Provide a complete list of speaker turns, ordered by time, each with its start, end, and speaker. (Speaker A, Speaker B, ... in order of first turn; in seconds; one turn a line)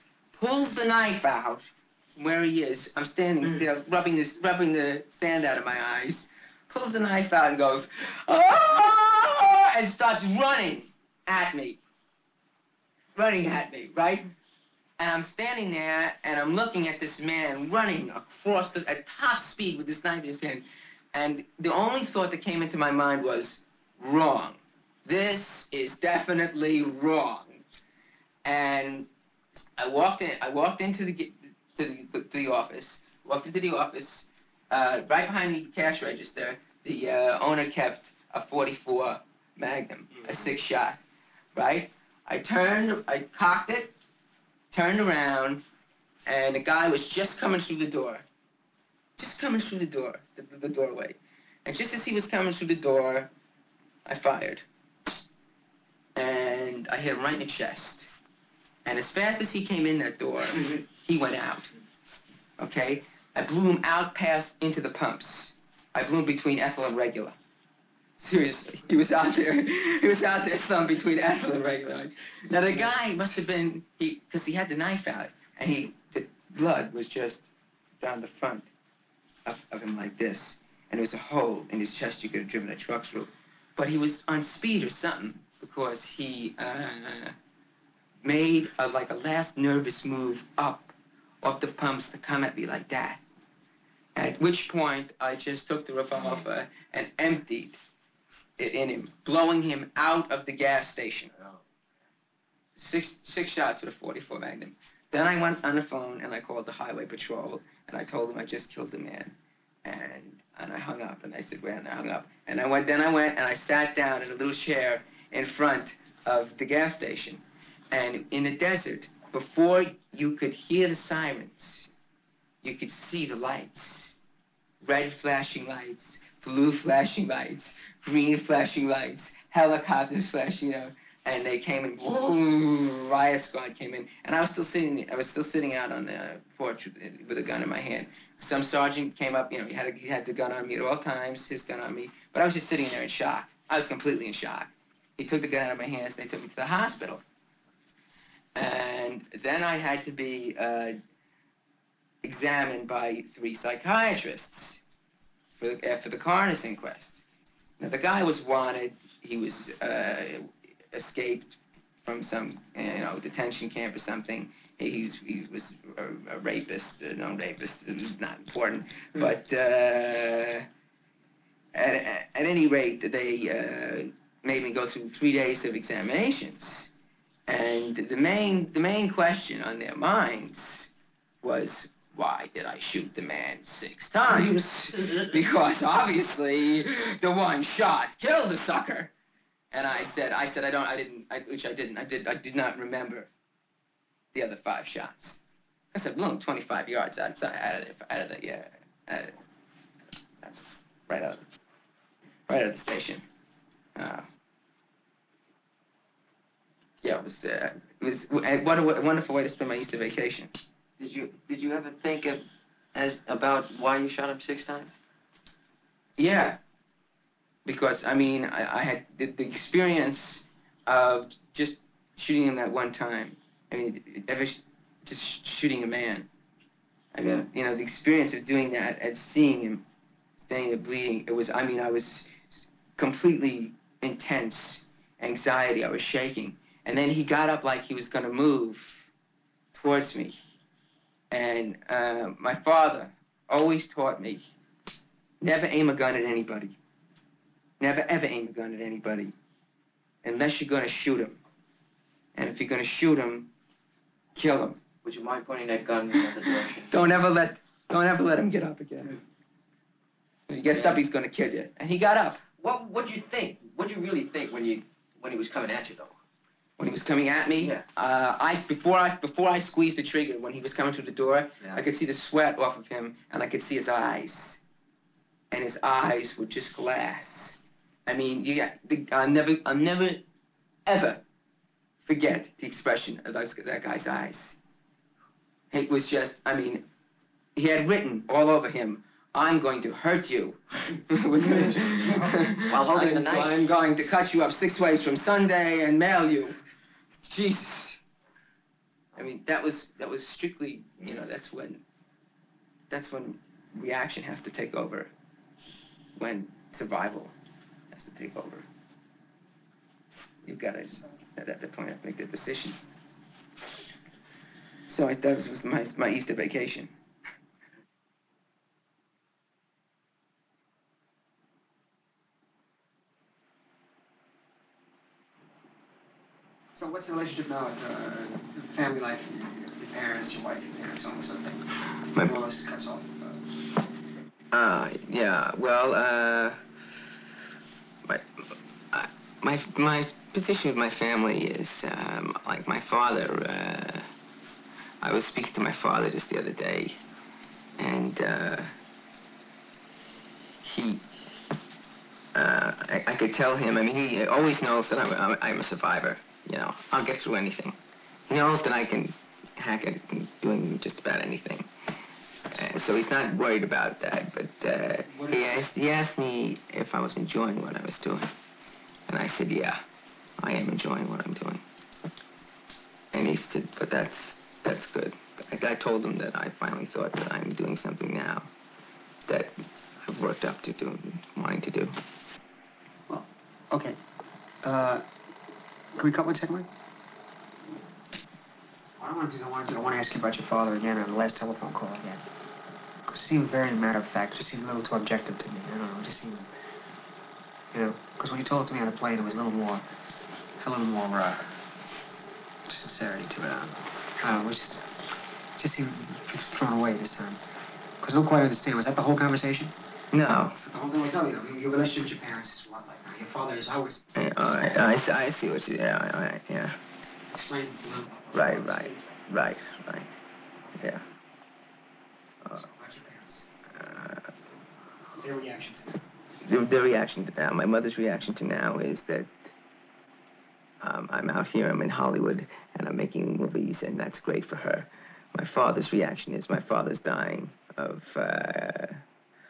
Speaker A: 0.3-11.8
Speaker A: 13.1-14.3
Speaker A: 15.0-27.6
Speaker A: 28.4-29.1
Speaker A: 29.8-41.0
Speaker A: 41.5-43.9
Speaker A: 44.7-45.6
Speaker A: 46.2-48.2
Speaker A: 49.2-53.3
Speaker A: 54.0-54.6
Speaker A: 56.1-58.1
Speaker A: 58.8-61.7
Speaker A: 62.6-67.4
Speaker A: 68.2-77.5
Speaker A: 78.0-78.7
Speaker A: 79.4-87.3
Speaker A: 88.2-93.2
Speaker A: 94.1-97.8
Speaker A: 98.6-101.3
Speaker A: 102.8-121.9
Speaker A: 122.6-124.2
Speaker A: 124.8-147.2
Speaker A: 148.5-151.0
Speaker A: 152.2-154.8
Speaker A: 155.6-157.2
Speaker A: 157.8-170.7
Speaker A: 171.7-176.9
Speaker A: 177.5-180.9
Speaker A: 181.4-189.1
Speaker A: 189.7-193.3
Speaker A: 194.3-195.4
Speaker A: 195.9-199.3
Speaker A: 200.4-201.4
Speaker A: 202.5-203.2
Speaker A: 203.9-204.3
Speaker A: 207.0-210.5
Speaker B: 211.0-212.4
Speaker B: 212.9-214.9
Speaker A: 216.2-216.6
Speaker A: 217.6-226.3
Speaker A: 227.1-229.8
Speaker A: 230.4-232.3
Speaker A: 233.0-239.1
Speaker A: 239.7-240.4
Speaker A: 241.3-244.5
Speaker A: 245.4-246.8
Speaker A: 247.8-249.3
Speaker A: 250.2-251.4
Speaker A: 252.3-253.5
Speaker A: 254.3-254.8
Speaker B: 255.0-256.9
Speaker A: 256.9-259.2
Speaker A: 260.5-262.4
Speaker B: 260.7-261.0
Speaker B: 262.6-266.1
Speaker A: 266.8-274.6
Speaker B: 267.6-267.8
Speaker A: 275.5-280.2
Speaker A: 280.9-281.2
Speaker A: 282.1-284.6
Speaker A: 285.7-286.9
Speaker A: 287.6-296.6
Speaker B: 291.4-293.6
Speaker A: 297.2-298.0
Speaker A: 299.1-301.8
Speaker A: 302.9-305.1
Speaker A: 306.1-307.3
Speaker A: 307.9-308.7
Speaker A: 310.4-312.8
Speaker A: 314.9-316.9
Speaker C: 326.8-331.6
Speaker C: 332.2-333.4
Speaker A: 334.5-336.6
Speaker A: 338.1-344.1
Speaker A: 345.0-347.0
Speaker A: 347.8-348.7
Speaker A: 350.6-351.0
Speaker A: 352.3-361.7
Speaker A: 362.5-368.3
Speaker C: 365.1-365.6
Speaker A: 369.1-369.8
Speaker A: 370.4-371.6
Speaker A: 373.1-378.5
Speaker A: 379.3-382.0
Speaker C: 383.1-384.0
Speaker C: 384.6-385.0
Speaker C: 385.9-386.7
Speaker C: 389.0-392.2
Speaker C: 393.1-396.5
Speaker C: 397.7-399.9
Speaker C: 400.6-401.5
Speaker C: 402.6-404.8
Speaker C: 405.6-407.4
Speaker C: 408.0-409.7
Speaker A: 410.1-410.6
Speaker C: 410.6-414.0
Speaker A: 414.1-416.8
Speaker C: 417.3-419.1
Speaker A: 418.3-420.1
Speaker A: 420.8-421.0
Speaker C: 422.5-423.4
Speaker A: 423.7-424.3
Speaker C: 425.2-425.9
Speaker A: 426.4-429.3
Speaker A: 430.8-439.0